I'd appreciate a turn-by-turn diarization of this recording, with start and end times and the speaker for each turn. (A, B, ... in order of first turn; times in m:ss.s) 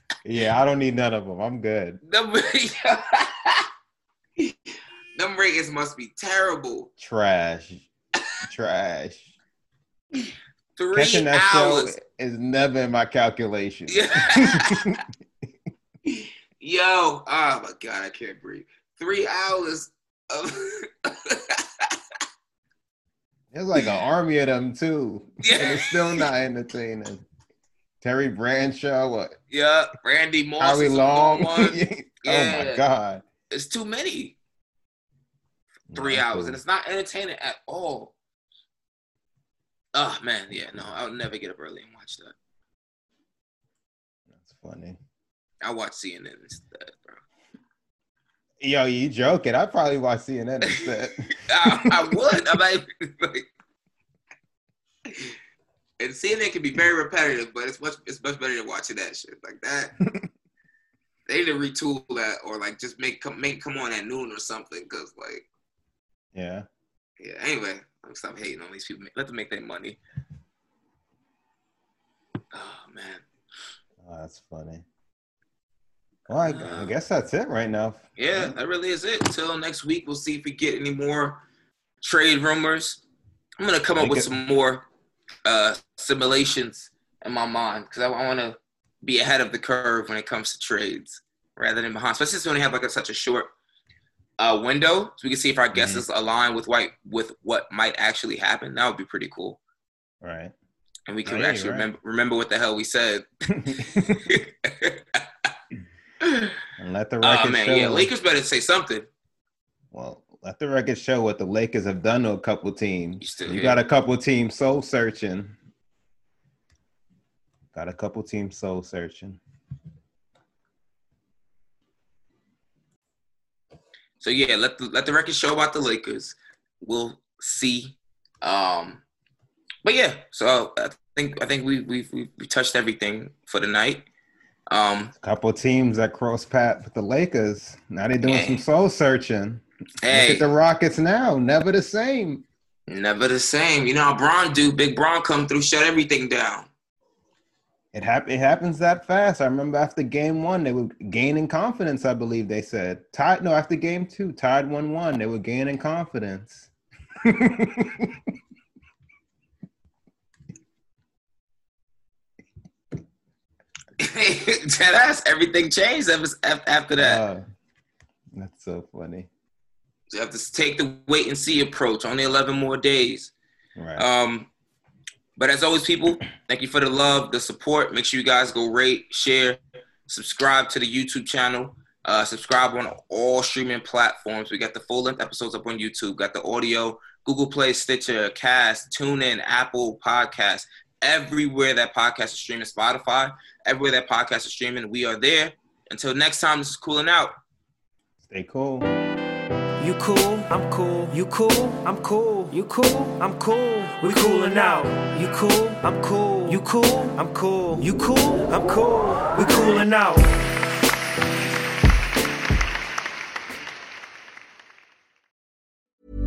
0:00.2-0:02.0 A
0:02.1-0:03.7 B
0:05.2-0:06.9 B
0:07.0-0:07.9 A
0:08.4-0:09.3 A
0:10.8-0:11.9 B
0:10.9-0:15.0 A
0:13.9-0:14.9 B
0:16.1-0:22.0 B
0:23.5-0:27.2 A
0:25.4-0:26.3 B
0:28.0-0:29.4 A
0:29.5-0:32.8 B
0:30.6-0:33.2 A
0:33.5-0:34.4 B
0:35.9-0:36.6 A
0:35.9-0:38.1 B
0:40.0-0:42.4 B
0:44.3-0:45.0 A
0:45.6-0:47.2 B
0:48.6-0:52.0 A
0:51.5-0:53.5 B
0:55.1-0:55.3 B
0:56.0-0:59.9 B
1:01.3-1:05.5 B
1:06.3-1:06.7 A
1:07.2-1:10.0 B
1:12.5-1:13.2 B
1:14.0-1:14.8 A
1:16.3-1:18.6 A
1:16.4-1:16.9 B
1:18.2-1:21.4 B
1:22.0-1:23.0 B
1:23.6-1:24.9 B
1:24.0-1:24.3 A
1:25.4-1:33.5 B
1:34.4-1:39.6 B
1:35.7-1:36.0 A
1:40.2-1:40.5 A
1:41.1-1:43.3 B
1:41.2-1:41.9 A
1:43.6-1:44.2 A
1:44.2-1:45.2 B
1:46.2-1:46.6 B
1:46.8-1:48.1 A
1:47.2-1:49.1 B
1:49.9-1:55.6 A
1:53.2-1:53.8 B
1:57.7-1:59.4 A
2:04.2-2:09.0 B
2:09.8-2:14.1 B
2:14.7-2:15.1 B
2:15.2-2:22.4 A
2:18.2-2:18.6 B
2:20.0-2:20.4 B
2:22.9-2:26.7 B
2:27.9-2:36.7 A
2:37.2-2:38.2 A
2:44.0-2:47.2 B
2:47.0-2:47.4 A
2:48.3-2:49.3 A
2:50.1-2:53.3 B
2:53.8-2:54.1 A
2:54.0-2:54.5 B
2:55.4-3:17.4 B
3:18.2-3:18.9 A
3:19.8-3:30.2 C